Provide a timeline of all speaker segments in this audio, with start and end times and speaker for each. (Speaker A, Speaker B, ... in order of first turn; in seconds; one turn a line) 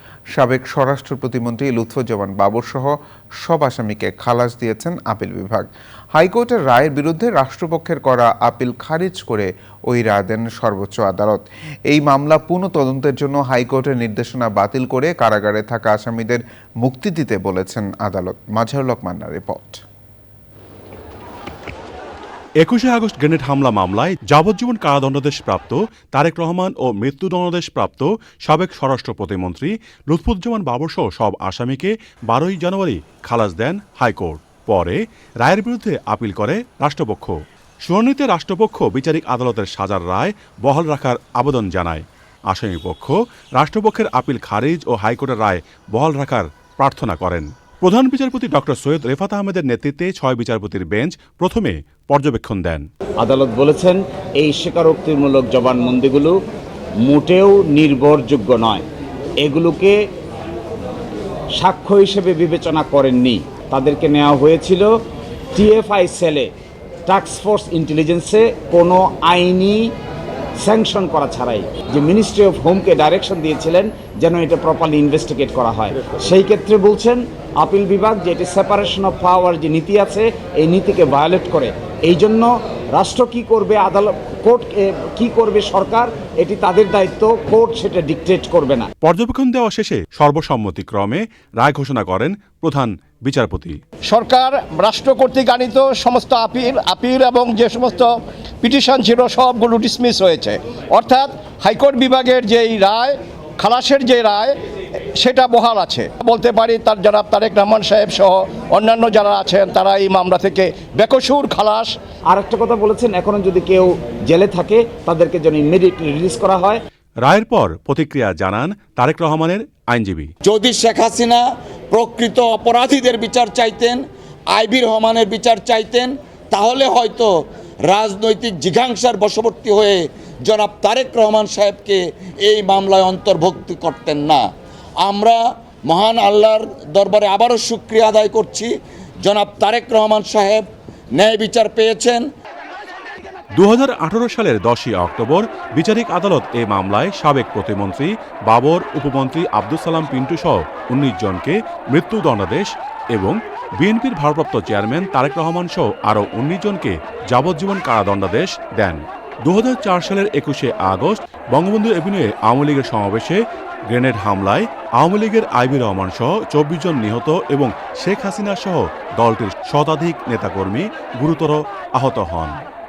Speaker A: 0.3-19.8
Speaker B: 22.6-52.9
Speaker C: 53.2-56.4
Speaker C: 57.0-58.9
Speaker C: 59.4-60.0
Speaker C: 61.5-64.9
Speaker C: 65.5-66.5
Speaker C: 67.0-69.9
Speaker C: 70.6-88.9
Speaker B: 89.0-93.8
Speaker D: 94.1-98.1
Speaker D: 98.6-104.5
Speaker D: 105.2-112.0
Speaker C: 112.3-116.8
Speaker B: 117.2-120.3
Speaker E: 120.5-127.3
Speaker E: 127.8-134.4
Speaker E: 135.0-142.3
Speaker B: 143.6-172.6